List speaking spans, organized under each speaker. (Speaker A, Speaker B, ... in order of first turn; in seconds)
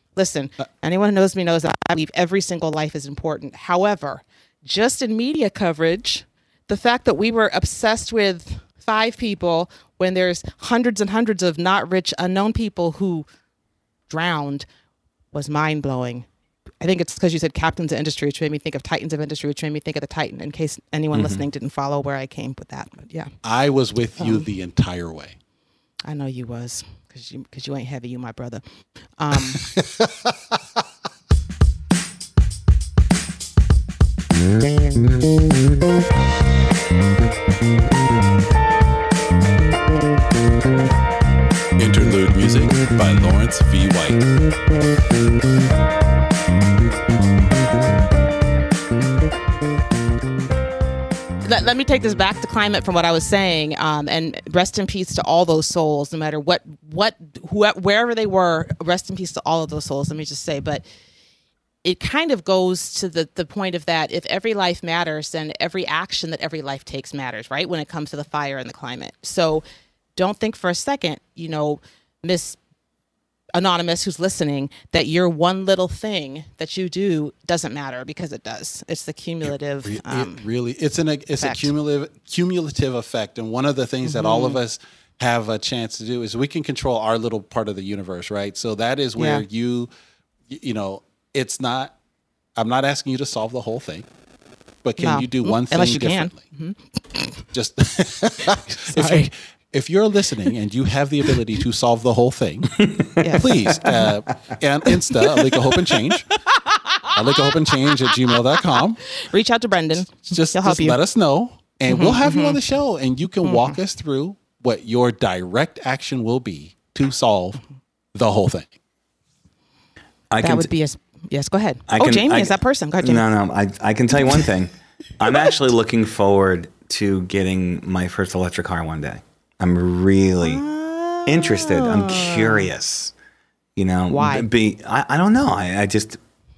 Speaker A: 0.1-13.2, 14.1-14.7, 15.3-16.3, 16.8-23.3, 24.2-24.4, 26.1-28.6, 29.2-29.6, 51.4-60.8, 61.8-69.6, 70.2-72.6, 73.5-80.4, 81.4-81.7, 84.0-84.6, 89.2-89.4, 95.0-97.4, 98.4-99.3, 103.2-104.1, 105.1-105.8, 106.5-108.4, 109.1-111.0, 111.9-112.6, 113.4-113.8, 120.4-123.2, 130.4-132.7, 134.1-134.5
Speaker B: 21.1-21.4, 120.3-120.7, 121.9-130.6, 131.2-133.1, 133.8-136.2
Speaker C: 23.4-25.4, 41.8-44.2, 79.8-89.9, 90.5-91.9, 92.5-94.0, 94.8-96.4, 97.5-106.3, 107.1-109.0, 110.2-117.6, 118.1-118.7